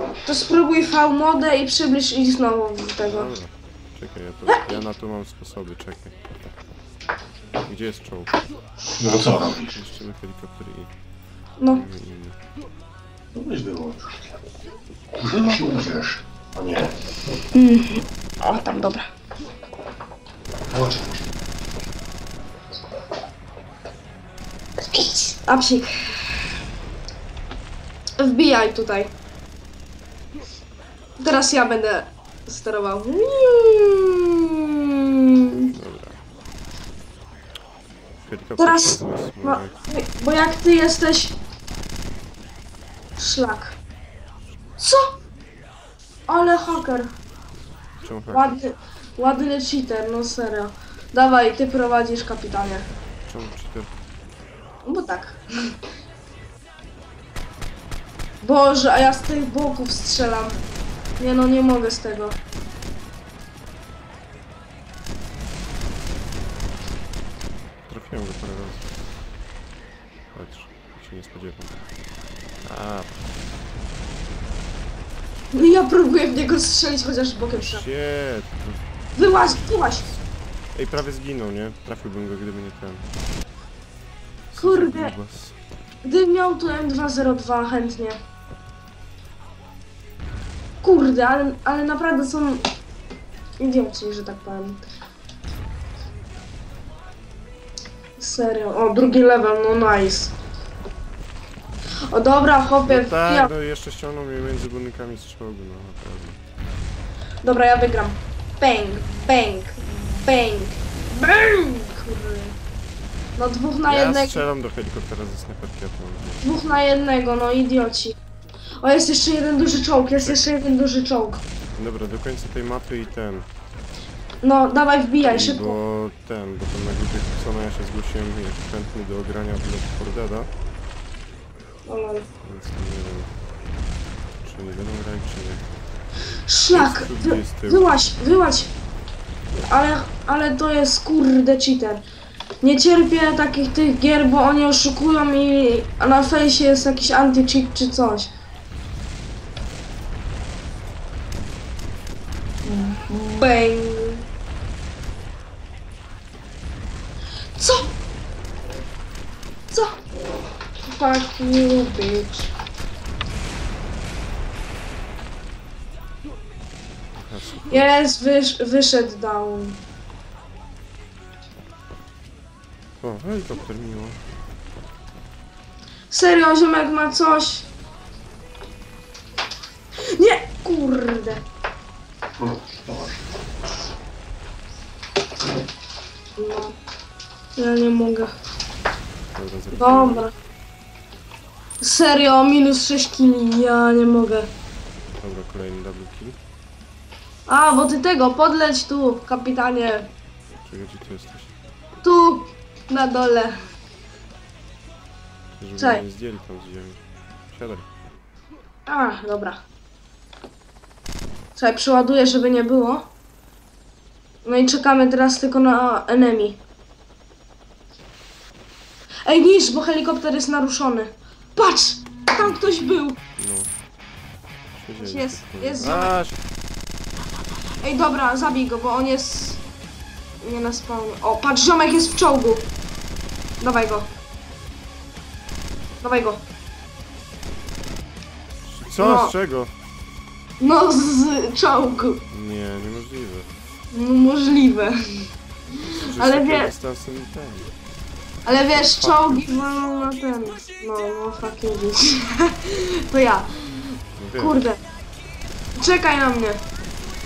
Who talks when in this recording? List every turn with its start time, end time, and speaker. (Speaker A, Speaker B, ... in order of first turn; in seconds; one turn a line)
Speaker A: 0.2-3.3
Speaker B: 3.0-6.2
Speaker B: 7.6-8.4
Speaker C: 8.9-9.8
Speaker B: 9.3-10.9
Speaker B: 11.7-12.4
Speaker C: 13.3-14.3
Speaker C: 15.2-17.0
Speaker A: 17.5-19.1
Speaker C: 20.7-21.3
Speaker A: 24.9-26.4
Speaker A: 28.2-29.1
Speaker A: 31.2-35.7
Speaker B: 35.7-36.2
Speaker B: 38.2-39.8
Speaker A: 38.6-41.4
Speaker A: 43.2-43.8
Speaker A: 44.8-45.1
Speaker A: 46.3-47.1
Speaker B: 48.0-48.5
Speaker A: 48.3-52.9
Speaker B: 53.2-53.9
Speaker A: 54.8-55.7
Speaker A: 58.4-60.6
Speaker A: 61.2-62.4
Speaker B: 67.9-68.9
Speaker B: 70.3-71.8
Speaker B: 72.6-73.2
Speaker A: 75.5-77.8
Speaker B: 77.5-83.1
Speaker A: 79.2-80.0
Speaker B: 84.5-85.6
Speaker A: 84.6-85.1
Speaker A: 86.0-88.2
Speaker A: 90.8-92.7
Speaker A: 93.6-94.8
Speaker A: 98.2-100.3
Speaker A: 102.1-103.5
Speaker B: 102.8-106.4
Speaker A: 107.4-112.6
Speaker A: 113.4-114.4
Speaker B: 113.9-116.6
Speaker A: 116.4-118.2
Speaker A: 118.8-121.4
Speaker B: 121.7-123.5
Speaker A: 124.4-125.8
Speaker B: 125.2-130.5
Speaker A: 131.8-132.3
Speaker B: 132.4-133.3
Speaker B: 134.4-135.7
Speaker A: 136.5-138.7
Speaker B: 136.7-137.9
Speaker A: 139.6-142.0
Speaker A: 142.6-148.3
Speaker A: 152.6-154.2
Speaker A: 157.6-157.9
Speaker A: 159.7-159.9
Speaker A: 160.8-162.5
Speaker B: 167.1-167.9
Speaker A: 167.7-169.8
Speaker B: 173.0-174.2
Speaker A: 176.1-177.7
Speaker A: 180.1-181.4
Speaker C: 182.4-183.4
Speaker A: 186.3-186.8
Speaker A: 187.6-188.3
Speaker B: 189.3-190.3
Speaker A: 189.7-190.3
Speaker A: 191.8-194.5
Speaker B: 195.1-196.4
Speaker A: 197.5-200.1
Speaker B: 200.6-201.5
Speaker A: 202.0-203.6
Speaker B: 205.6-207.9
Speaker A: 205.8-206.0
Speaker A: 208.8-209.6
Speaker A: 211.6-213.1
Speaker A: 214.4-216.6
Speaker A: 219.2-223.2
Speaker B: 222.4-223.7
Speaker B: 224.7-226.4
Speaker A: 225.0-226.1
Speaker A: 227.8-229.6
Speaker A: 230.4-232.7
Speaker A: 233.6-234.1
Speaker A: 236.0-236.4
Speaker B: 238.7-239.7
Speaker A: 239.0-239.3
Speaker A: 240.6-242.2
Speaker B: 242.3-243.5
Speaker A: 243.9-245.2
Speaker B: 245.8-247.7
Speaker A: 245.8-246.7
Speaker A: 248.4-254.8
Speaker B: 248.7-249.6
Speaker B: 254.2-254.7
Speaker A: 255.7-256.6